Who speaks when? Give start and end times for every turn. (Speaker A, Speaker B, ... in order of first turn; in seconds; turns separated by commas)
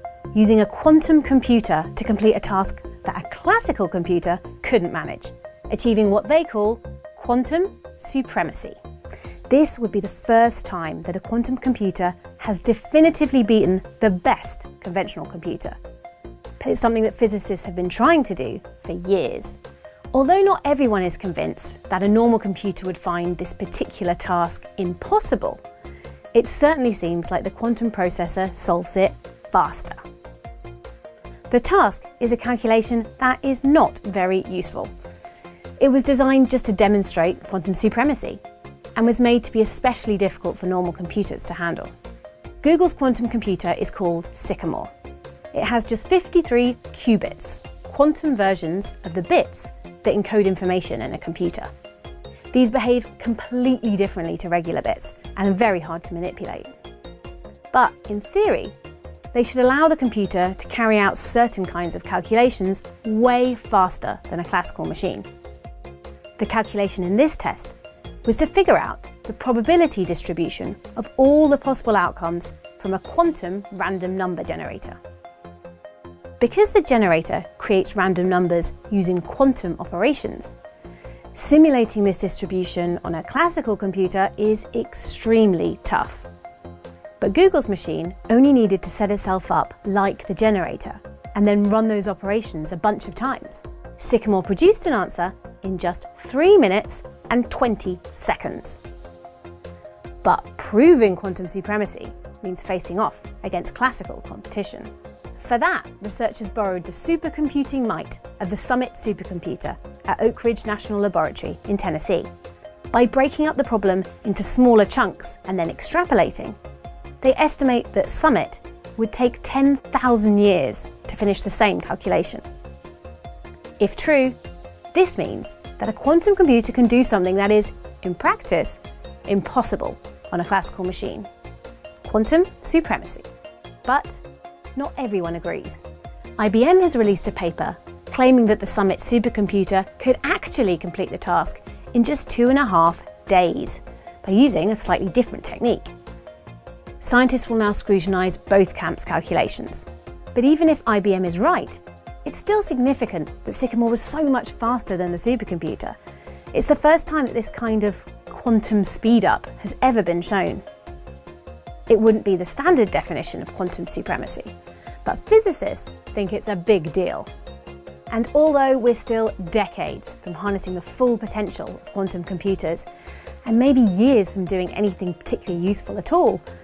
Speaker A: 0.3-8.8, Speaker A: 9.5-15.8, Speaker A: 16.6-19.6, Speaker A: 20.1-25.6, Speaker A: 26.3-30.0, Speaker A: 31.5-34.9, Speaker A: 35.8-38.4, Speaker A: 39.0-41.9, Speaker A: 42.6-44.9, Speaker A: 45.5-51.7, Speaker A: 52.5-56.7, Speaker A: 57.7-58.8, Speaker A: 59.3-65.3, Speaker A: 66.4-75.0, Speaker A: 76.4-80.5, Speaker A: 81.3-86.3, Speaker A: 87.2-98.8, Speaker A: 100.2-112.3, Speaker A: 112.9-116.6, Speaker A: 117.2-122.4, Speaker A: 123.8-124.4, Speaker A: 124.9-131.3, Speaker A: 132.0-133.3, Speaker A: 133.8-134.2, Speaker A: 134.8-135.8, Speaker A: 136.4-145.9, Speaker A: 147.0-156.0, Speaker A: 156.5-160.7, Speaker A: 161.9-164.5, Speaker A: 165.0-167.3, Speaker A: 168.1-172.9, Speaker A: 173.4-176.4